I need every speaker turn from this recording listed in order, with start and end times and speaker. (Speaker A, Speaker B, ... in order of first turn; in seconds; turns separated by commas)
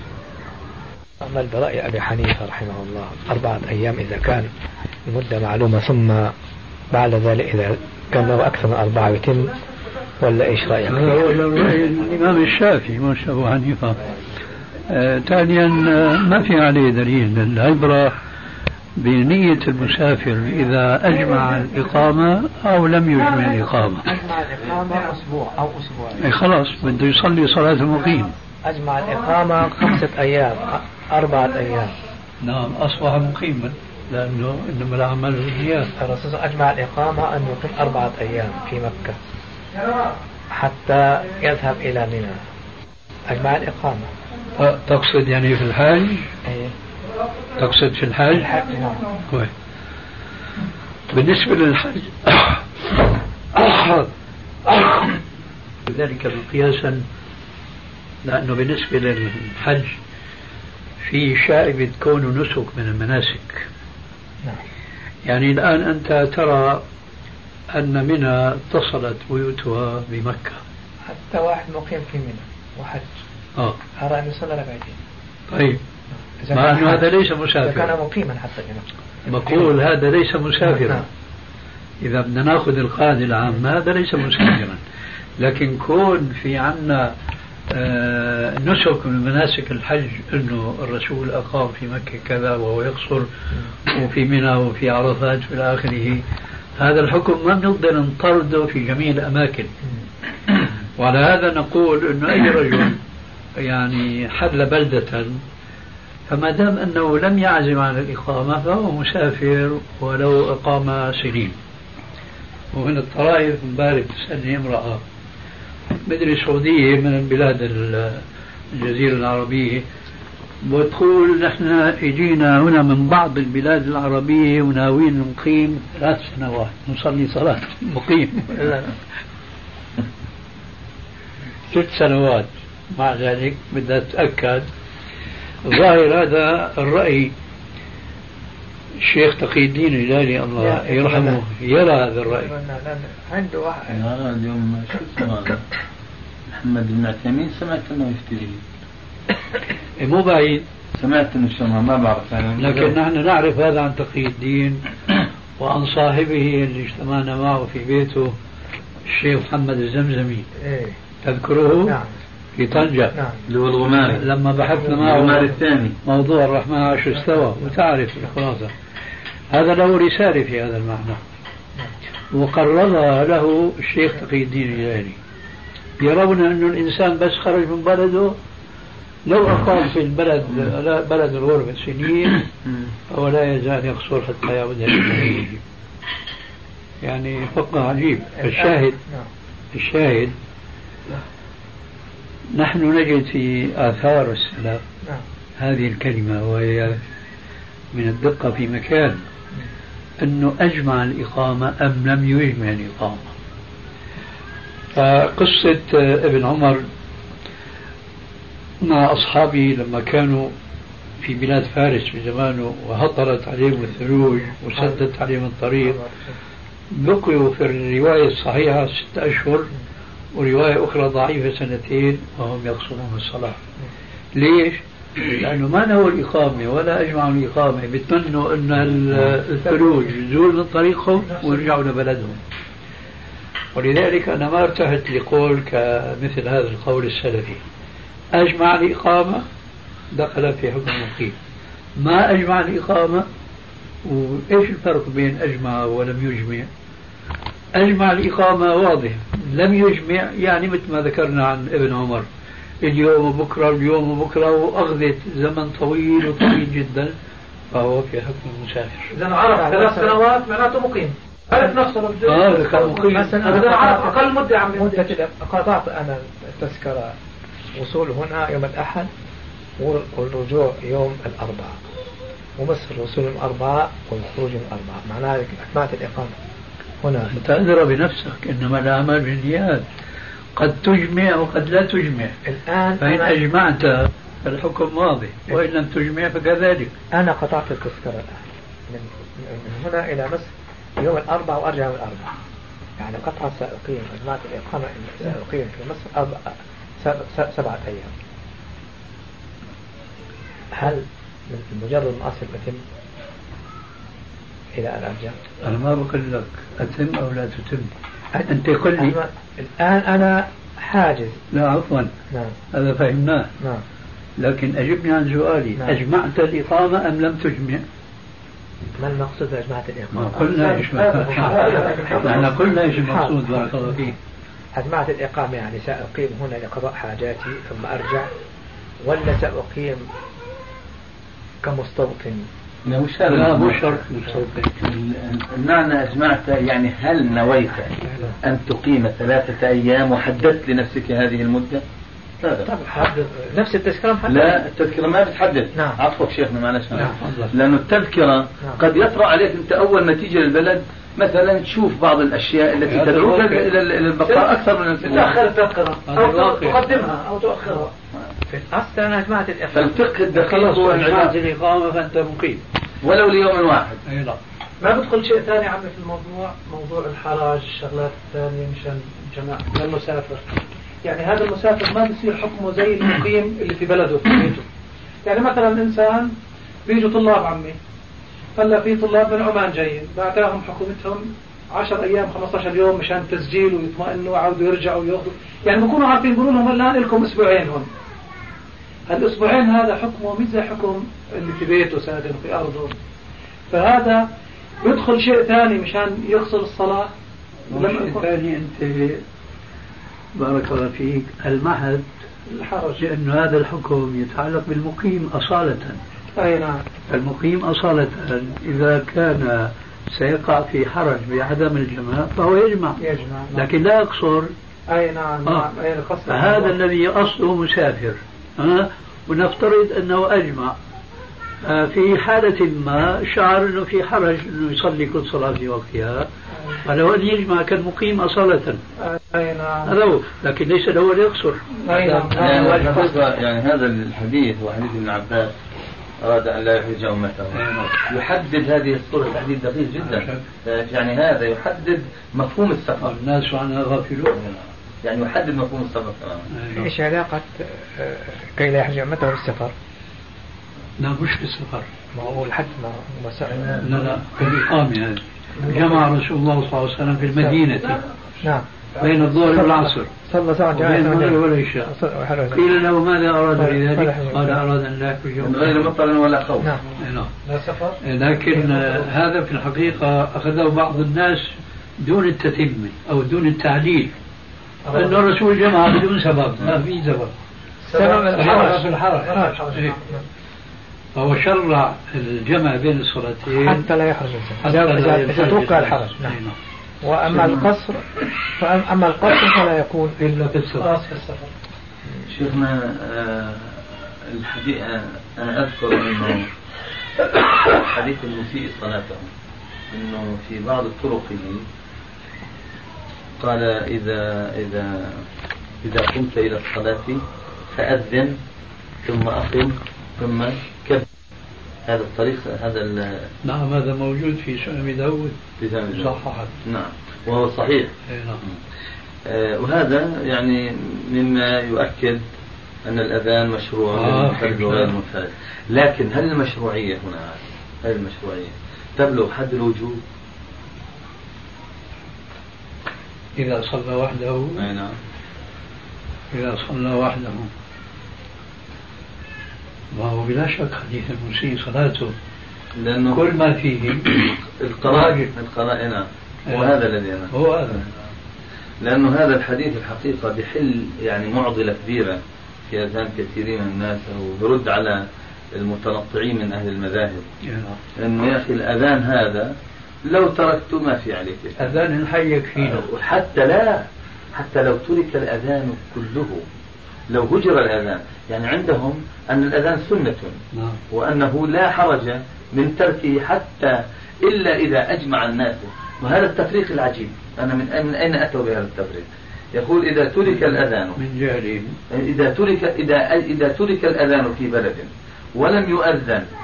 Speaker A: 1.2-4.5, Speaker A: 5.0-6.3, Speaker A: 6.9-9.6, Speaker A: 10.2-11.3, Speaker B: 10.8-14.0, Speaker B: 14.9-18.1, Speaker B: 19.0-24.1, Speaker A: 23.9-26.3, Speaker B: 26.2-28.3, Speaker A: 28.6-31.9, Speaker B: 32.4-35.9, Speaker A: 36.0-39.2, Speaker A: 40.5-42.4, Speaker A: 43.3-44.1, Speaker B: 44.6-46.3, Speaker A: 46.4-46.7, Speaker B: 47.6-48.5, Speaker A: 48.3-49.1, Speaker B: 51.1-52.6, Speaker B: 53.5-54.1, Speaker B: 54.6-55.1, Speaker B: 55.9-57.0, Speaker B: 58.2-60.0, Speaker B: 61.0-63.7, Speaker B: 65.2-66.8, Speaker B: 67.7-70.6, Speaker A: 71.0-73.1, Speaker A: 74.0-75.0, Speaker B: 75.5-75.8, Speaker A: 76.3-79.7, Speaker B: 76.5-77.9, Speaker B: 79.3-81.0, Speaker A: 80.6-81.0, Speaker B: 82.0-84.8, Speaker B: 85.4-87.1, Speaker B: 87.7-93.3, Speaker B: 93.9-96.2, Speaker B: 96.8-99.7, Speaker B: 101.0-103.0, Speaker B: 103.6-105.4, Speaker B: 106.3-111.5, Speaker B: 112.7-115.0, Speaker B: 116.0-119.8, Speaker B: 120.6-128.9, Speaker B: 131.7-134.7, Speaker B: 135.6-137.3, Speaker B: 139.0-142.5, Speaker A: 140.6-141.4, Speaker A: 142.2-144.0, Speaker C: 143.9-145.6, Speaker C: 146.5-148.6, Speaker B: 150.0-150.7, Speaker C: 151.0-153.0, Speaker B: 152.6-154.8, Speaker B: 155.6-158.3, Speaker B: 159.1-160.5, Speaker A: 160.6-161.0, Speaker B: 161.2-161.9, Speaker A: 161.8-162.1, Speaker B: 162.6-163.1, Speaker A: 163.1-163.4, Speaker C: 163.5-164.3, Speaker B: 163.8-168.7, Speaker C: 164.9-166.0, Speaker A: 165.0-165.3, Speaker B: 169.5-171.2, Speaker B: 172.3-175.2, Speaker B: 176.0-178.3, Speaker B: 179.2-182.4, Speaker B: 183.1-185.6, Speaker B: 187.0-189.0, Speaker A: 188.4-189.3, Speaker B: 189.7-190.3, Speaker B: 192.5-194.8, Speaker B: 195.6-197.0, Speaker B: 197.9-199.2, Speaker B: 200.2-203.3, Speaker B: 204.9-206.9, Speaker B: 208.8-210.5, Speaker B: 211.2-216.0, Speaker A: 215.8-216.3, Speaker B: 216.9-219.7, Speaker B: 220.3-223.6, Speaker B: 224.3-232.4, Speaker B: 233.7-237.6, Speaker B: 238.3-239.4, Speaker B: 240.1-241.3, Speaker B: 242.0-243.2, Speaker B: 244.0-246.7, Speaker B: 247.7-252.2, Speaker B: 252.8-257.1, Speaker B: 257.7-259.1, Speaker D: 259.1-265.1, Speaker A: 259.5-260.2, Speaker B: 262.2-263.4, Speaker A: 263.1-264.2, Speaker A: 264.7-267.1, Speaker A: 267.7-269.1, Speaker A: 269.8-271.8, Speaker A: 272.6-276.4, Speaker A: 277.0-277.4, Speaker B: 277.3-279.8, Speaker B: 280.6-282.4, Speaker A: 282.4-283.4, Speaker B: 283.0-286.9, Speaker A: 287.1-292.4, Speaker A: 293.0-298.1, Speaker A: 300.7-302.8, Speaker A: 304.7-305.4, Speaker B: 305.6-307.9, Speaker A: 308.3-311.4, Speaker B: 308.4-309.2, Speaker B: 311.5-312.1, Speaker A: 312.3-312.6, Speaker B: 312.7-313.5, Speaker A: 313.6-313.8, Speaker B: 314.4-317.8, Speaker A: 319.0-324.0, Speaker B: 320.1-324.1, Speaker D: 320.5-322.5, Speaker A: 324.7-328.3, Speaker A: 329.0-330.1, Speaker A: 331.6-332.5, Speaker C: 332.8-334.0, Speaker B: 333.3-334.8, Speaker C: 334.8-341.8, Speaker A: 338.0-338.4, Speaker C: 342.4-342.7, Speaker A: 342.6-344.6, Speaker C: 344.2-355.4, Speaker A: 345.7-346.0, Speaker B: 346.9-347.5, Speaker B: 352.9-353.7, Speaker D: 354.2-357.9, Speaker B: 356.1-356.9, Speaker A: 358.5-360.1, Speaker C: 359.7-361.4, Speaker B: 360.3-362.6, Speaker C: 363.0-364.0, Speaker B: 364.1-364.4, Speaker D: 364.8-370.4, Speaker D: 371.0-374.7, Speaker D: 375.2-376.3, Speaker D: 376.9-377.8, Speaker D: 378.6-387.9, Speaker D: 389.1-392.9, Speaker D: 393.7-394.3, Speaker D: 394.8-397.1, Speaker B: 397.7-399.2, Speaker D: 397.7-398.3, Speaker B: 400.3-402.1, Speaker D: 402.5-403.0, Speaker B: 403.0-406.0, Speaker D: 406.3-406.8, Speaker B: 407.1-413.0, Speaker D: 413.0-413.7, Speaker B: 413.5-414.5, Speaker D: 414.9-416.8, Speaker B: 416.2-420.8, Speaker B: 421.6-426.3, Speaker B: 426.8-428.8, Speaker D: 429.0-429.9, Speaker B: 429.8-433.2, Speaker D: 431.8-433.2, Speaker C: 432.4-435.5, Speaker C: 436.2-443.1, Speaker B: 437.5-438.0, Speaker B: 440.0-440.4, Speaker B: 443.0-444.4, Speaker C: 444.3-446.5, Speaker B: 446.5-446.9, Speaker A: 446.7-449.7, Speaker B: 451.0-451.9, Speaker A: 452.1-453.9, Speaker B: 453.8-458.0, Speaker D: 455.6-456.0, Speaker D: 457.5-458.0, Speaker B: 459.0-460.1, Speaker D: 459.0-459.7, Speaker A: 459.4-462.8, Speaker B: 460.7-461.9, Speaker B: 462.5-465.9, Speaker A: 463.5-464.6, Speaker C: 465.4-466.7, Speaker B: 467.0-467.3, Speaker D: 467.4-468.0, Speaker B: 468.0-474.1, Speaker D: 468.5-469.1, Speaker D: 474.8-475.2, Speaker B: 474.9-477.3, Speaker D: 477.9-480.2, Speaker A: 477.9-479.5, Speaker B: 478.3-479.9, Speaker B: 481.1-483.9, Speaker A: 483.5-486.4, Speaker B: 484.6-486.6, Speaker A: 487.0-490.4, Speaker B: 490.2-490.9, Speaker D: 490.6-491.5, Speaker C: 492.3-496.4, Speaker C: 497.7-499.3, Speaker C: 499.9-501.6, Speaker C: 503.4-505.2, Speaker C: 505.8-508.4, Speaker C: 509.0-511.1, Speaker C: 511.9-513.3, Speaker B: 513.4-515.4, Speaker C: 515.6-517.9, Speaker B: 515.9-516.5, Speaker B: 518.1-518.4, Speaker C: 519.2-522.2, Speaker C: 522.8-530.0, Speaker B: 523.9-524.9, Speaker B: 533.4-534.6, Speaker C: 534.5-535.0, Speaker B: 536.3-537.5, Speaker B: 539.9-542.1, Speaker C: 542.8-543.3, Speaker B: 543.1-544.1, Speaker C: 544.6-547.9, Speaker B: 544.8-545.3, Speaker B: 546.5-546.7, Speaker B: 547.3-547.8, Speaker C: 548.8-552.2, Speaker C: 552.7-555.0, Speaker C: 555.5-557.2, Speaker B: 557.4-557.8, Speaker C: 558.0-559.5, Speaker C: 560.0-561.7, Speaker B: 561.6-562.9, Speaker C: 562.6-566.5, Speaker C: 567.1-570.4, Speaker B: 570.5-570.8, Speaker C: 570.9-581.0, Speaker B: 580.3-581.8, Speaker C: 581.9-586.3